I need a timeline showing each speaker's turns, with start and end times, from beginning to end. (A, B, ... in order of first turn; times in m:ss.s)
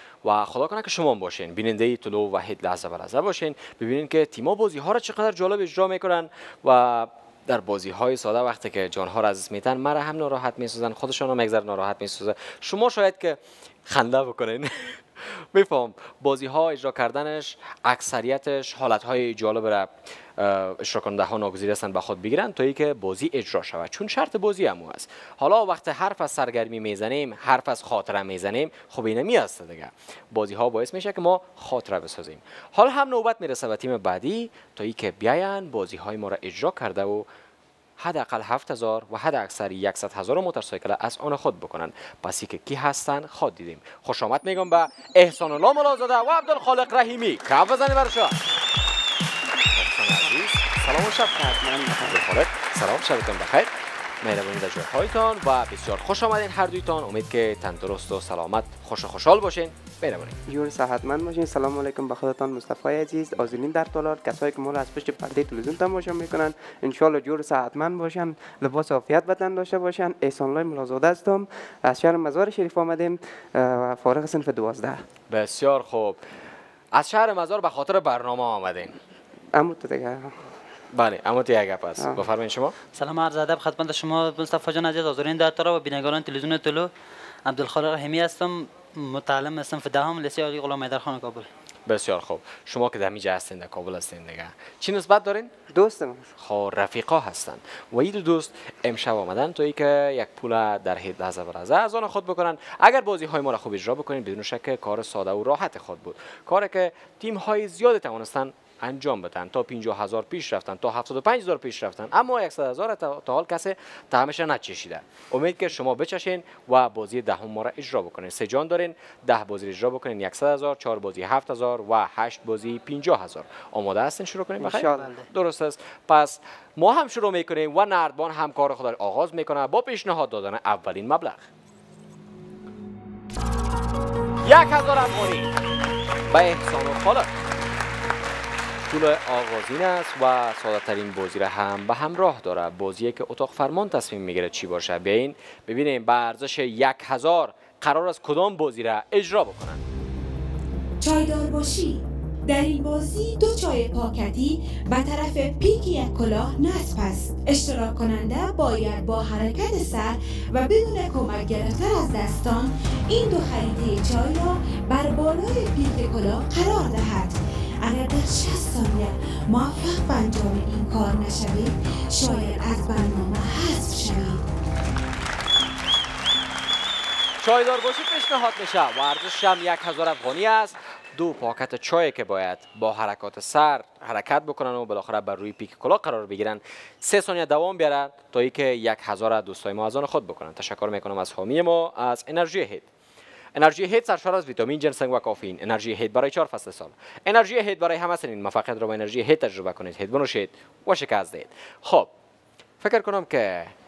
0:00.2-0:37.3 A
0:38.0-0:48.4 A
0:49.7-0:53.7 A
0:51.3-0:52.2 B
0:54.2-1:00.4 A
1:00.5-1:15.0 B
1:15.3-1:16.2 A
1:16.9-1:19.0 A
1:19.5-1:20.5 B
1:20.9-1:22.8 A
1:23.0-1:26.9 C
1:27.5-1:31.5 C
1:31.9-1:35.5 A
1:35.7-1:36.3 B
1:36.4-2:11.5 A
2:04.6-2:05.1 B
2:04.9-2:05.3 C
2:14.4-2:15.6 A
2:16.3-2:17.3 A
2:18.9-2:29.8 A
2:31.0-2:54.5 D
2:57.4-3:12.9 A
3:13.6-3:22.1 A
3:22.8-3:23.7 A